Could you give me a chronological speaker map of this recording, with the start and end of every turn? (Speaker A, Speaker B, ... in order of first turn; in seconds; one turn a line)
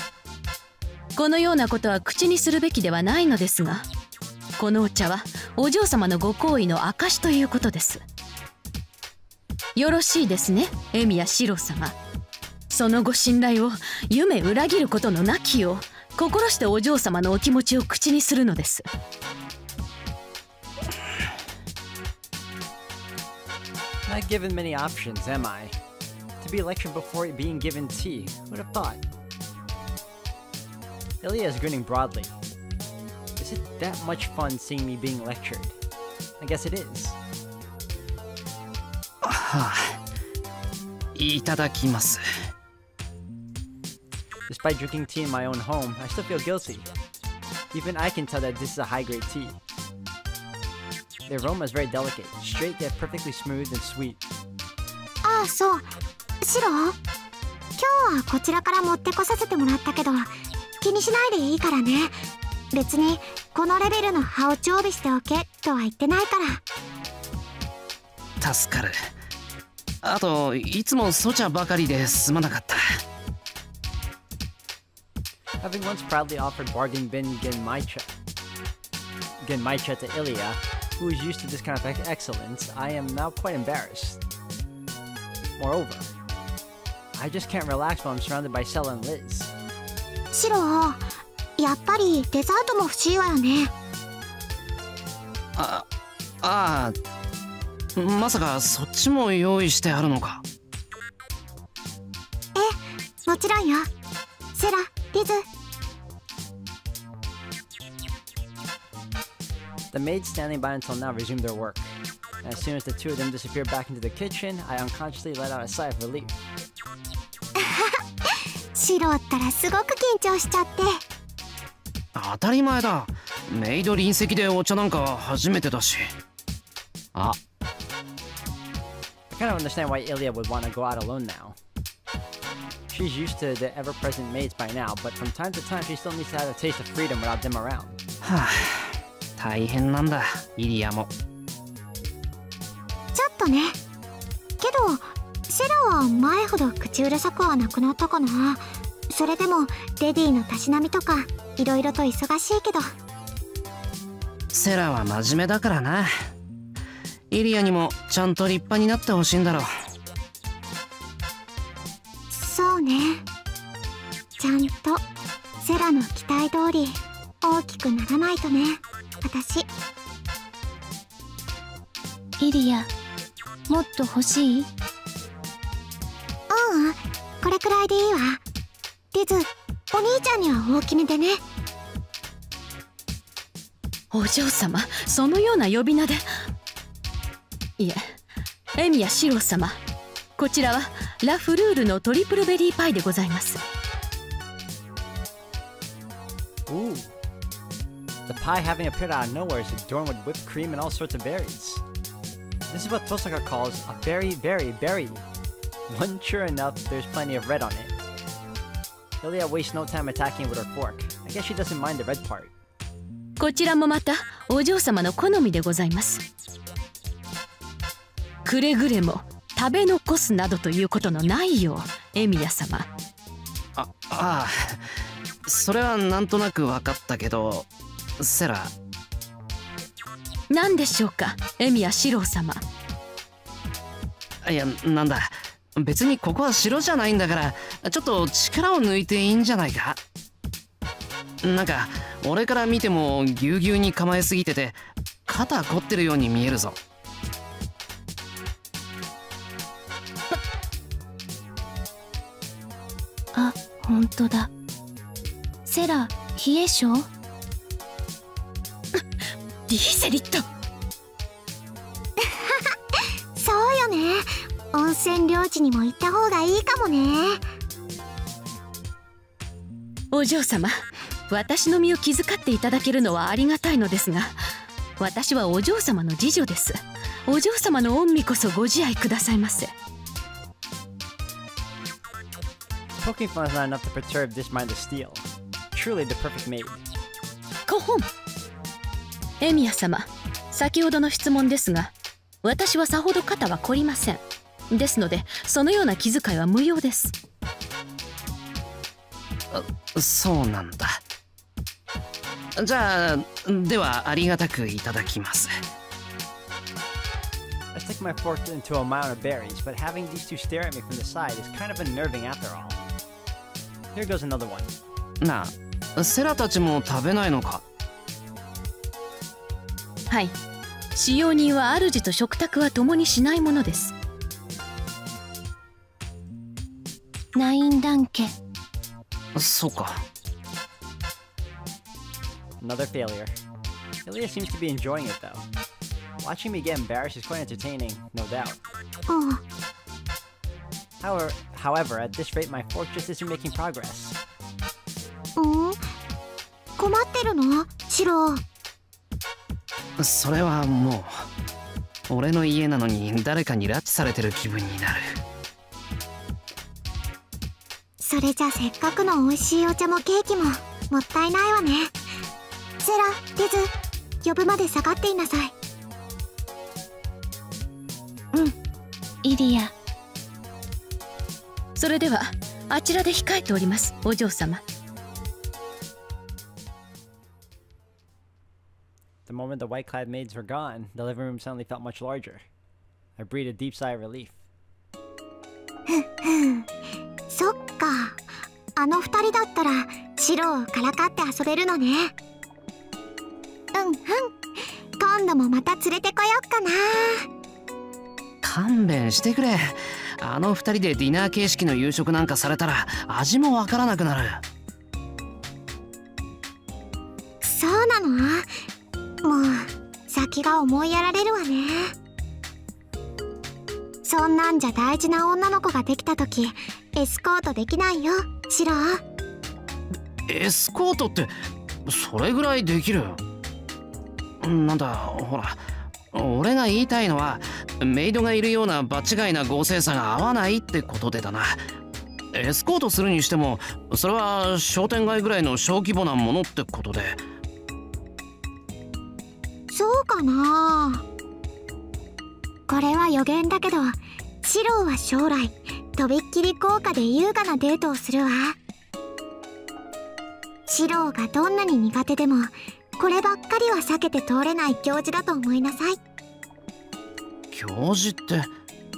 Speaker A: 1.2-3.9
Speaker A: 4.6-8.0
Speaker A: 9.8-11.9
Speaker A: 12.7-18.9
Speaker B: 24.1-25.8
Speaker B: 26.4-29.0
Speaker B: 31.2-32.4
Speaker B: 33.4-35.7
Speaker B: 36.4-37.2
Speaker C: 39.2-40.0
Speaker C: 41.1-42.2
Speaker B: 44.5-46.9
Speaker B: 47.7-49.6
Speaker B: 51.3-54.2
Speaker D: 55.2-55.9
Speaker D: 56.4-57.0
Speaker D: 57.8-62.2
Speaker D: 62.7-66.6
Speaker C: 68.4-68.9
Speaker C: 70.0-72.8
Speaker B: 75.6-78.1
Speaker B: 79.4-84.2
Speaker B: 85.6-86.1
Speaker B: 87.1-89.5
Speaker D: 90.3-93.7
Speaker C: 95.6-95.9
Speaker C: 96.4-97.0
Speaker C: 98.0-100.4
Speaker D: 102.5-103.9
Speaker D: 104.5-105.5
Speaker B: 109.9-111.9
Speaker B: 112.4-116.3
Speaker D: 117.6-121.0
Speaker C: 122.2-126.1
Speaker B: 129.3-131.6
Speaker B: 132.9-138.0
Speaker C: 138.2-141.1
Speaker D: 143.2-143.8
Speaker D: 144.6-152.9
Speaker C: 154.5-156.1
Speaker C: 157.3-159.7
Speaker D: 162.3-163.2
Speaker D: 164.4-165.0
Speaker D: 165.6-169.7
Speaker E: 172.4-172.9
Speaker E: 173.7-174.7
Speaker D: 176.5-178.4
Speaker D: 179.1-181.4
Speaker A: 184.1-186.2
Speaker A: 187.8-188.1
Speaker A: 188.8-189.8
Speaker A: 190.4-193.6
Speaker B: 196.7-197.1
Speaker B: 198.3-201.8
Speaker B: 202.7-205.2
Speaker B: 205.9-207.9
Speaker B: 209.2-212.5
Speaker A: 213.4-216.2
Speaker A: 218.4-222.9
Speaker C: 223.8-224.8
Speaker C: 225.5-227.7
Speaker C: 228.2-228.7
Speaker A: 230.5-232.6
Speaker C: 234.4-240.0
Speaker C: 241.4-246.8
Speaker E: 253.3-254.5
Speaker E: 255.7-257.1
Speaker A: 259.7-260.4
Speaker D: 262.2-267.4
Speaker A: 270.1-274.4
Speaker A: 275.0-276.8
Speaker A: 277.3-279.7
Speaker B: 283.0-286.8
Speaker A: 287.7-288.1
Speaker A: 289.4-291.9
Speaker A: 292.4-297.1
Speaker C: 299.5-301.0
Speaker C: 302.6-305.5
Speaker B: 307.8-312.8
Speaker B: 313.9-314.7
Speaker C: 315.2-317.6
Speaker A: 321.0-323.9
Speaker E: 327.4-328.3
Speaker C: 329.4-330.0
Speaker B: 332.6-333.3
Speaker B: 334.1-335.5
Speaker B: 336.2-338.6
Speaker D: 339.1-339.4
Speaker B: 341.0-344.2
Speaker D: 345.4-345.8
Speaker D: 346.8-348.4
Speaker C: 350.0-351.2
Speaker C: 352.1-355.2
Speaker D: 358.0-361.9
Speaker D: 362.8-363.7
Speaker D: 364.2-365.5
Speaker E: 369.2-369.7
Speaker A: 371.8-374.6
Speaker B: 379.3-382.4
Speaker B: 383.2-384.4
Speaker D: 385.9-386.7
Speaker D: 387.3-388.2
Speaker D: 388.8-392.1
Speaker D: 393.7-394.4
Speaker D: 395.0-397.3
Speaker C: 398.4-404.4
Speaker D: 407.4-408.5
Speaker D: 409.2-411.9
Speaker D: 414.0-419.0
Speaker C: 420.3-421.3
Speaker C: 421.9-423.2
Speaker C: 424.4-425.6
Speaker C: 426.1-431.6
Speaker C: 432.3-437.2
Speaker D: 439.7-441.0
Speaker D: 442.7-448.6
Speaker D: 450.7-456.0
Speaker C: 457.5-458.5